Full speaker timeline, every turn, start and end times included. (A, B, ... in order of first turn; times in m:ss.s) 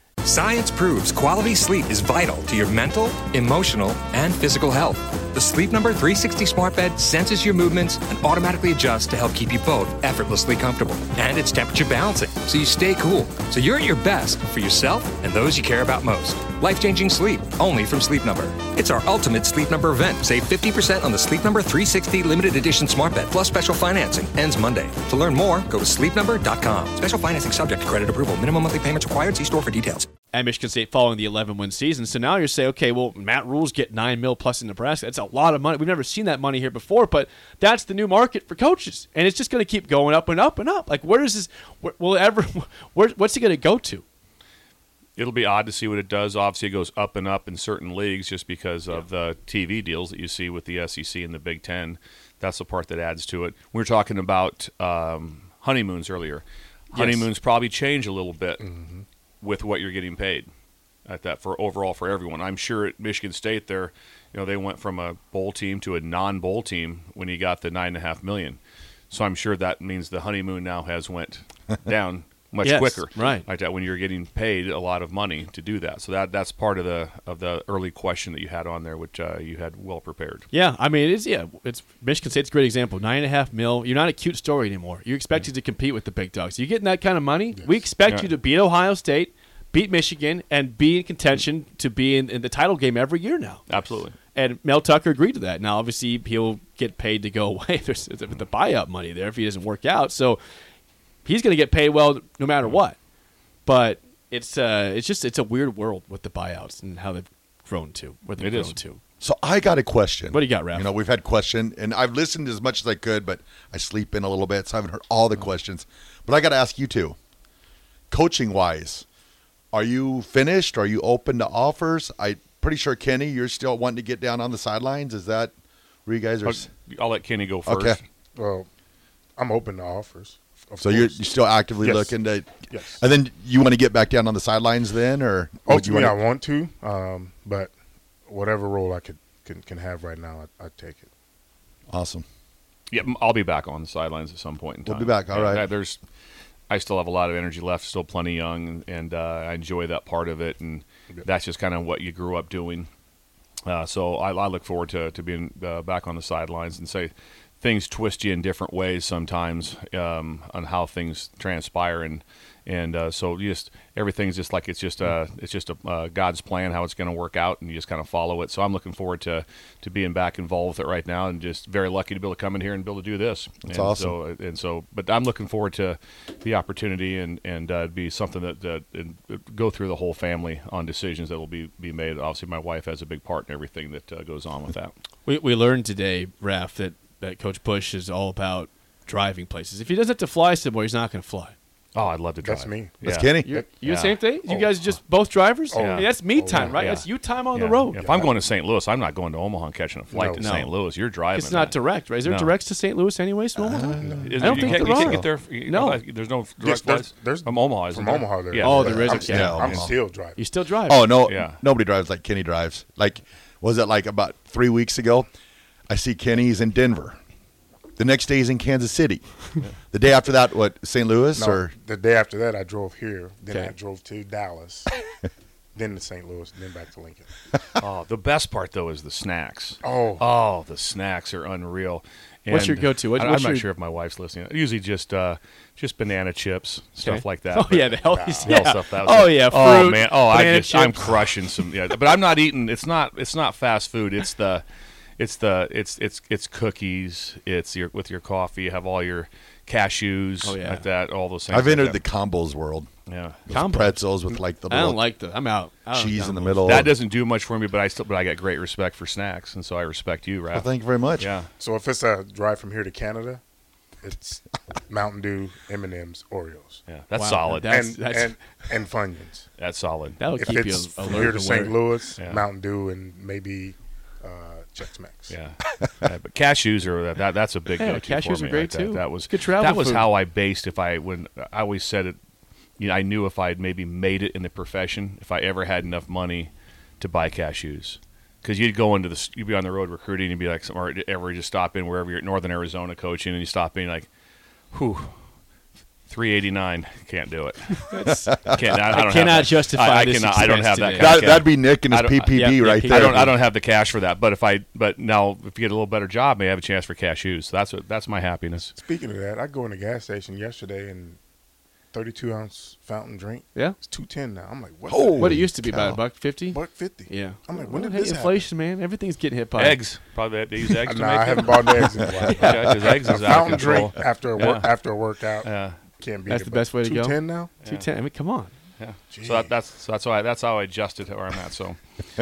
0:00.2-0:30.1 A
0:30.3-0:44.0 B
0:45.2-0:58.7 C
0:56.9-0:57.3 B
0:58.6-0:59.0 D
0:59.4-1:00.5 C
1:01.1-1:08.6 C
1:09.1-1:20.5 C
1:12.6-1:13.5 B
1:20.5-1:40.4 B
1:28.0-1:28.3 C
1:33.7-1:34.2 C
1:41.2-1:43.0 B
1:43.7-1:49.0 B
1:48.4-1:48.8 C
1:49.2-1:57.2 E
1:50.3-1:50.9 B
1:58.1-1:59.0 E
1:59.7-2:05.5 E
2:06.1-2:06.7 E
2:06.4-2:08.0 C
2:07.7-2:08.0 E
2:08.4-2:08.7 D
2:09.4-2:11.3 D
2:10.8-2:16.2 E
2:11.8-2:13.0 D
2:15.7-2:17.7 D
2:18.3-2:21.1 D
2:21.9-2:22.2 E
2:22.9-2:26.0 C
2:24.9-2:25.7 E
2:26.7-2:32.9 C
2:33.7-3:04.9 C
2:53.6-2:54.2 E
3:05.3-3:11.5 B
3:11.9-3:13.3 C
3:12.4-3:13.0 D
3:13.0-3:13.6 E
3:13.4-3:18.0 B
3:13.8-3:14.2 C
3:14.4-3:14.7 D
3:15.7-3:16.8 D
3:15.8-3:22.5 C
3:18.0-3:18.4 D
3:20.1-3:20.5 D
3:20.4-3:20.8 B
3:21.3-3:26.0 B
3:23.6-3:25.3 E
3:24.0-3:24.4 D
3:24.2-3:29.8 C
3:26.6-3:30.4 D
3:28.6-3:29.8 B
3:29.2-3:30.0 E
3:30.4-3:31.2 B
3:30.9-3:35.3 E
3:31.3-3:31.6 C
3:35.9-3:37.2 E
3:38.0-3:39.2 E
3:39.9-3:41.7 E
3:41.4-3:44.9 D
3:43.5-3:43.7 B
3:45.8-3:47.3 D
3:47.8-4:04.6 C
3:49.8-3:50.3 D
3:52.5-3:53.7 B
3:57.0-4:01.7 B
3:58.1-3:58.6 D
4:05.2-4:12.0 C
4:10.4-4:10.8 B
4:11.5-4:12.9 E
4:13.1-4:13.4 C
4:13.5-4:15.0 E
4:13.5-4:16.9 B
4:15.9-4:16.9 E
4:16.7-4:20.7 C
4:20.5-4:21.3 E
4:21.2-4:21.5 C
4:21.6-4:23.4 D
4:24.0-4:26.8 D
4:26.9-4:27.8 C
4:27.1-4:28.4 B
4:27.7-4:29.5 D
4:29.6-4:30.3 C
4:30.2-4:31.8 B
4:30.4-4:35.4 D
4:32.2-4:32.4 C
4:35.3-4:42.2 C
4:37.8-4:40.1 B
4:42.8-4:54.1 C
4:54.7-4:55.1 C
4:56.1-4:57.9 C
4:57.8-5:01.2 B
4:58.4-5:08.7 C
5:01.0-5:03.4 E
5:02.3-5:03.3 B
5:08.8-5:11.2 D
5:11.9-5:15.5 D
5:14.9-5:15.9 E
5:15.2-5:19.8 B
5:16.5-5:18.4 D
5:19.6-5:24.8 C
5:20.9-5:27.5 D
5:25.4-5:25.8 C
5:26.3-5:28.5 B
5:28.8-5:31.8 C
5:29.1-5:29.5 D